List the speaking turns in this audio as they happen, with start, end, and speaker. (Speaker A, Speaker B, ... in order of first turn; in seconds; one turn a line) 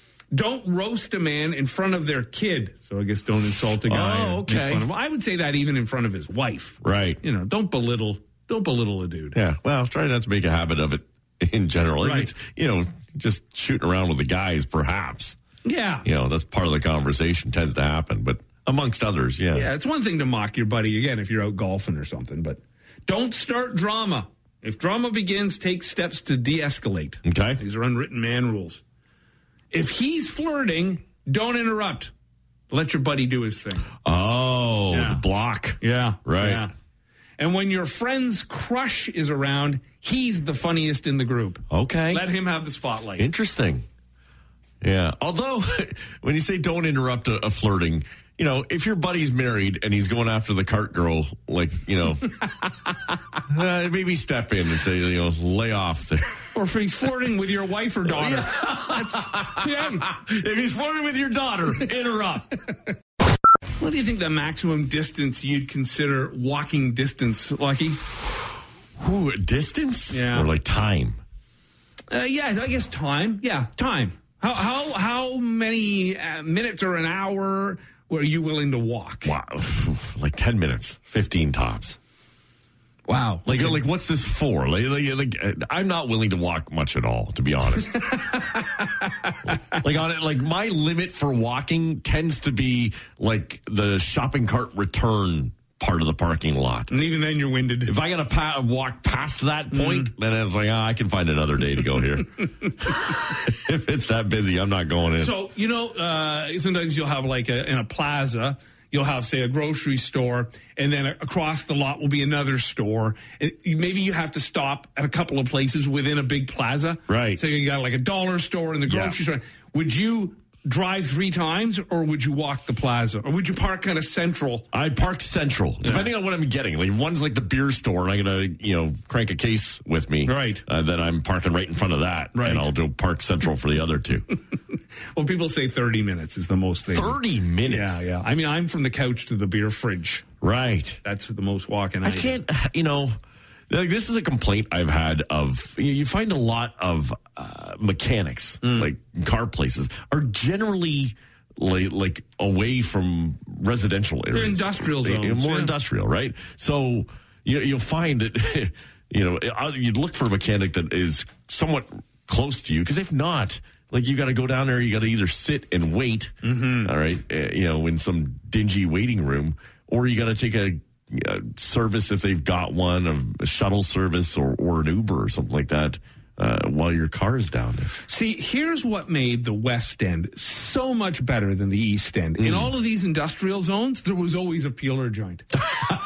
Speaker A: 0.3-9.4
Speaker B: 3.7-4.9
Speaker B: 6.8-7.2
Speaker B: 9.3-15.4
Speaker A: 12.0-12.3
Speaker A: 15.6-16.1
Speaker B: 16.0-19.7
Speaker A: 19.5-28.8
Speaker B: 27.2-27.6
Speaker A: 29.7-32.1
Speaker A: 32.7-33.9
Speaker B: 34.0-36.6
Speaker A: 34.9-35.2
Speaker A: 35.8-36.7
Speaker A: 37.4-43.3
Speaker B: 41.7-42.2
Speaker B: 43.2-43.8
Speaker B: 44.8-56.3
Speaker A: 56.5-60.0
Speaker B: 58.1-62.5
Speaker A: 63.8-68.0
Speaker B: 69.0-71.2
Speaker A: 70.1-70.5
Speaker A: 72.1-79.3
Speaker B: 79.2-82.0
Speaker A: 83.1-83.8
Speaker B: 83.4-88.0
Speaker A: 87.8-89.4
Speaker B: 89.5-96.9
Speaker A: 96.9-97.9
Speaker B: 97.8-105.3
Speaker A: 99.7-100.1
Speaker A: 105.2-124.7
Speaker B: 117.1-117.4
Speaker B: 118.8-119.2
Speaker B: 124.7-134.3
Speaker A: 125.8-126.1
Speaker A: 130.2-130.6
Speaker A: 132.3-132.7
Speaker A: 135.1-140.2
Speaker B: 136.9-138.0
Speaker B: 140.4-141.0
Speaker A: 141.0-142.4
Speaker B: 142.0-143.1
Speaker B: 143.7-177.9
Speaker A: 148.6-148.9
Speaker A: 154.3-155.7
Speaker A: 166.4-166.9
Speaker A: 178.0-185.6
Speaker B: 182.4-182.7